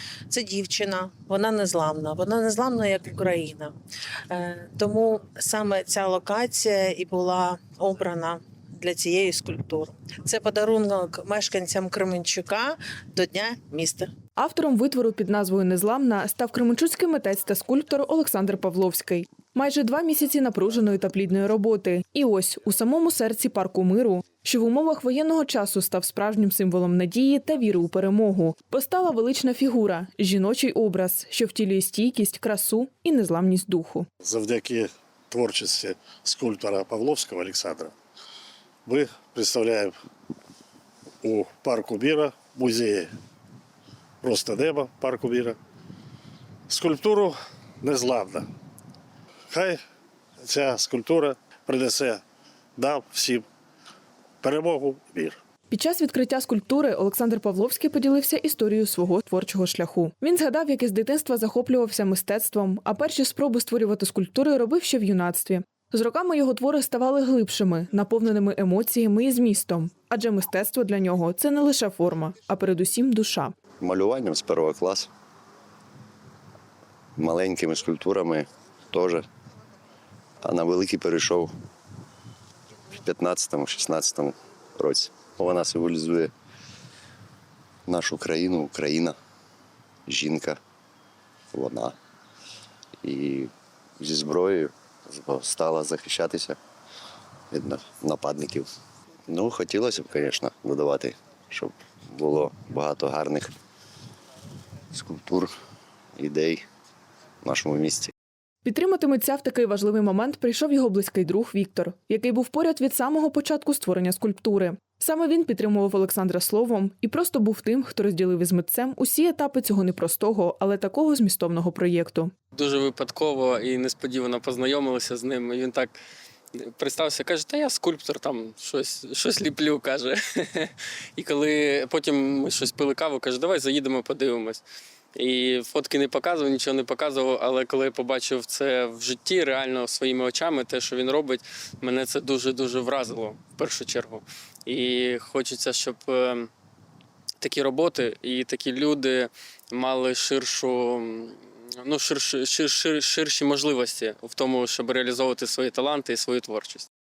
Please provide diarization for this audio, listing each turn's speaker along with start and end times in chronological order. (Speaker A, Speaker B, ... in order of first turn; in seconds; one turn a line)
Speaker A: 0.3-3.8
Speaker A: 4.3-14.1
Speaker B: 14.4-34.1
Speaker C: 34.2-37.9
Speaker C: 38.9-40.0
Speaker C: 41.2-43.1
Speaker C: 44.2-45.6
Speaker C: 46.7-48.5
Speaker C: 49.5-49.8
Speaker C: 50.4-52.2
Speaker C: 52.8-53.5
Speaker C: 54.4-55.4
Speaker B: 55.7-73.6
Speaker D: 73.8-75.1
Speaker D: 77.2-79.2
Speaker D: 80.4-81.5
Speaker D: 82.9-86.3
Speaker D: 87.9-89.2
Speaker D: 90.1-90.6
Speaker D: 91.5-92.0
Speaker D: 93.0-96.6
Speaker D: 97.5-98.7
Speaker D: 99.3-103.5
Speaker D: 104.9-105.5
Speaker D: 106.2-106.6
Speaker D: 107.4-108.1
Speaker B: 108.6-122.3
Speaker E: 122.5-126.0
Speaker E: 126.5-134.6
Speaker E: 135.1-146.5
Speaker E: 147.4-156.9